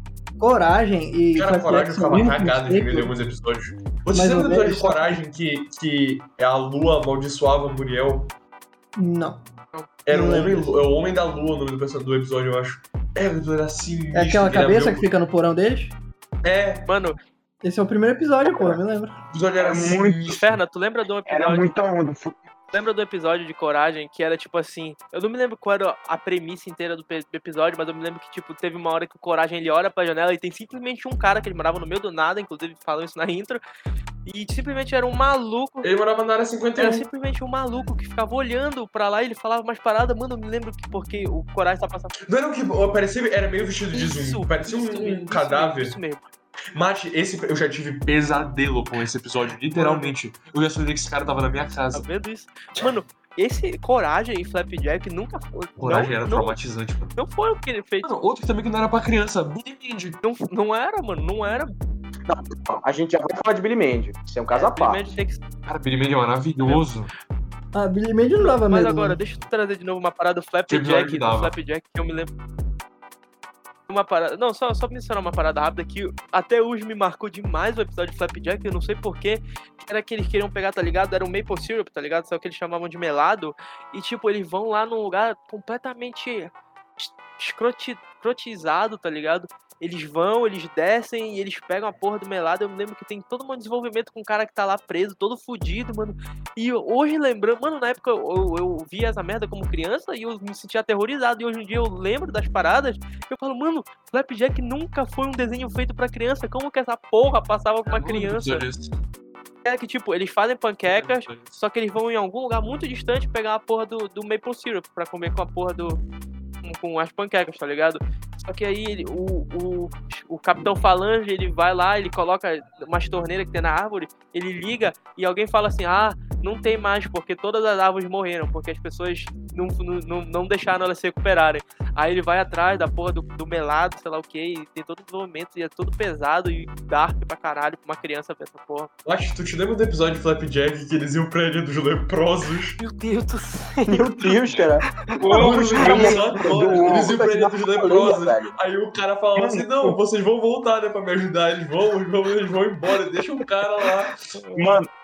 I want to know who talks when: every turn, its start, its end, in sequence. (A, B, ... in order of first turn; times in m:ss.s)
0:00.4-0:03.1 A
0:01.3-0:08.3 B
0:04.1-0:05.2 A
0:09.0-0:09.4 A
0:10.0-0:15.1 B
0:10.1-0:10.8 A
0:14.1-0:15.9 A
0:16.4-0:16.9 B
0:16.9-0:17.2 C
0:17.6-0:19.2 A
0:18.4-0:18.8 D
0:19.3-0:20.6 B
0:19.6-0:20.4 D
0:20.4-0:21.7 C
0:21.2-0:22.4 D
0:22.7-0:33.6 C
0:34.2-0:35.9 C
0:35.8-0:37.0 B
0:36.8-0:42.1 C
0:42.2-0:46.0 B
0:43.9-0:46.3 C
0:46.7-0:52.0 B
0:49.7-0:50.1 C
0:51.9-0:56.6 C
0:55.8-0:57.2 B
0:57.2-0:58.1 C
0:58.0-1:00.2 B
1:00.2-1:01.7 C
1:02.3-1:05.2 E
1:04.5-1:05.4 C
1:05.6-1:07.1 B
1:07.7-1:09.2 A
1:08.4-1:12.3 C
1:10.7-1:11.5 B
1:13.9-1:48.6 C
1:47.9-1:48.9 B
1:49.6-1:56.0 C
1:50.8-1:51.5 B
1:56.6-2:18.9 C
2:19.0-2:22.8 B
2:22.8-2:24.4 C
2:23.9-2:28.5 E
2:25.2-2:27.1 D
2:25.3-2:34.2 B
2:29.4-2:30.0 D
2:34.5-2:34.9 D